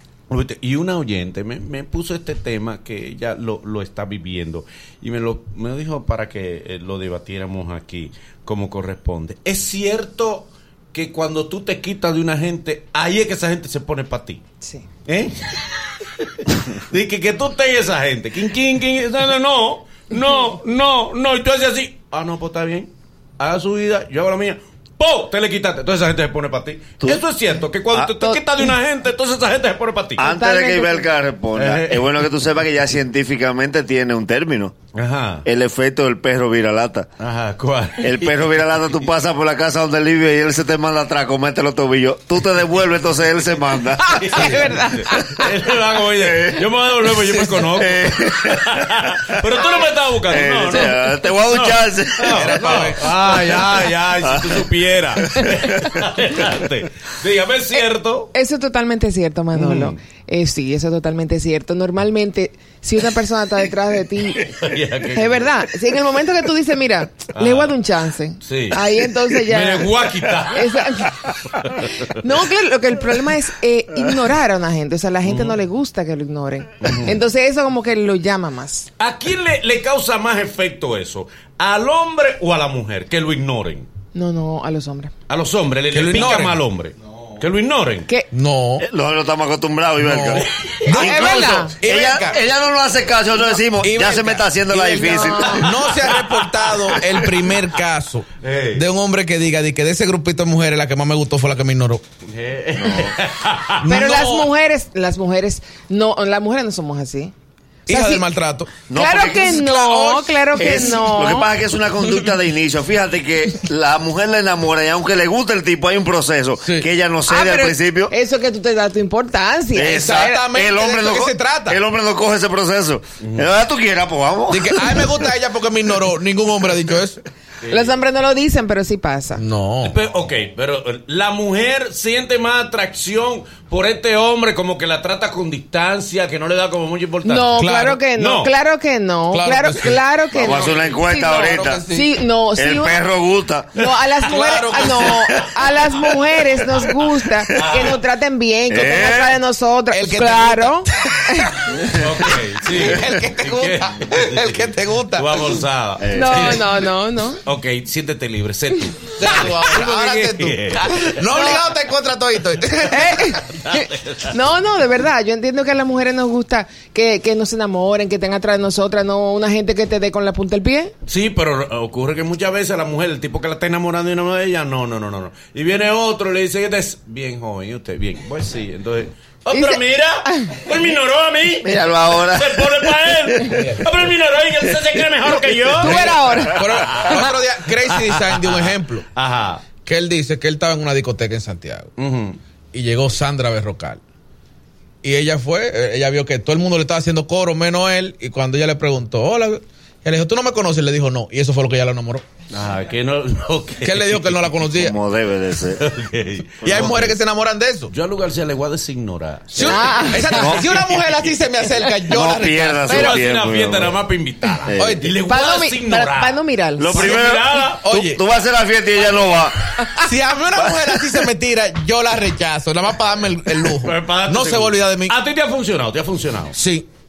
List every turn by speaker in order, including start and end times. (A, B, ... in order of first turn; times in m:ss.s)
0:00.3-0:14.4 A
0:15.1-0:30.2 A
0:27.9-0:28.4 B
0:30.2-0:31.1 C
0:30.2-0:34.8 B
0:31.6-0:32.1 A
0:35.0-0:35.4 A
0:35.4-0:37.1 B
0:37.2-0:38.5 A
0:38.0-0:44.7 B
0:44.0-0:45.5 C
0:44.2-0:58.3 A
0:46.2-0:46.6 B
0:47.7-0:49.1 B
0:50.3-0:52.6 B
0:52.3-0:53.1 D
0:54.2-0:54.7 B
0:55.2-0:56.0 B
0:58.3-1:04.5 C
0:59.6-1:00.0 A
1:04.4-1:05.7 A
1:05.2-1:09.9 C
1:07.4-1:07.8 A
1:08.4-1:12.1 A
1:10.5-1:11.4 C
1:12.0-1:18.9 C
1:15.3-1:15.6 A
1:16.8-1:17.2 A
1:19.0-1:23.9 A
1:24.2-1:25.1 C
1:25.3-1:28.1 A
1:25.9-1:26.6 D
1:28.3-1:28.8 D
1:28.8-1:35.6 B
1:30.0-1:32.4 D
1:30.9-1:31.7 C
1:33.8-1:42.0 D
1:34.9-1:35.6 C
1:35.7-1:36.8 A
1:38.4-1:38.8 A
1:42.3-1:44.4 A
1:42.8-1:43.1 B
1:43.9-1:47.3 C
1:47.9-1:48.2 C
1:47.9-1:48.7 D
1:48.9-1:49.6 B
1:49.0-1:51.5 C
1:49.4-1:50.8 D
1:50.6-1:58.1 B
1:57.3-2:00.4 C
1:59.8-2:05.1 B
1:59.8-2:01.8 D
2:03.2-2:03.5 A
2:04.5-2:07.2 D
2:07.6-2:08.0 A
2:07.7-2:09.4 C
2:09.4-2:10.0 D
2:09.8-2:17.6 A
2:17.2-2:23.0 C
2:17.6-2:18.0 D
2:18.2-2:18.5 A
2:19.3-2:22.1 D
2:20.4-2:21.8 B
2:20.5-2:20.9 A
2:22.6-2:23.7 B
2:23.8-2:31.5 C
2:24.3-2:25.2 D
2:27.6-2:28.0 A
2:28.7-2:29.4 B
2:29.9-2:31.7 D
2:32.0-2:36.8 A
2:32.8-2:35.4 D
2:36.0-2:36.6 B
2:36.1-2:37.4 C
2:37.4-2:41.2 A
2:39.2-2:43.4 D
2:41.3-2:41.6 C
2:42.9-2:50.9 C
2:43.6-2:44.2 A
2:51.1-3:09.6 A
2:59.5-3:00.5 C
3:01.6-3:03.8 B
3:05.8-3:06.6 C
3:05.8-3:09.1 D
3:09.9-3:11.9 D
3:12.0-3:12.4 A
3:12.7-3:14.0 D
3:15.0-3:22.2 D
3:22.5-3:24.4 A
3:23.8-3:25.0 D
3:24.8-3:25.8 B
3:25.8-3:27.1 A
3:26.6-3:27.0 B
3:26.6-3:27.9 D
3:27.9-3:30.3 A
3:29.5-3:33.1 D
3:29.6-3:30.5 C
3:30.4-3:30.8 B
3:32.1-3:33.9 B
3:32.9-3:36.4 A
3:34.7-3:35.0 B
3:34.8-3:35.1 D
3:35.3-3:36.9 C
3:36.8-3:39.6 B
3:36.9-3:37.9 A
3:37.8-3:38.2 D
3:40.0-3:45.2 D
3:43.8-3:46.6 A
3:46.6-3:46.9 D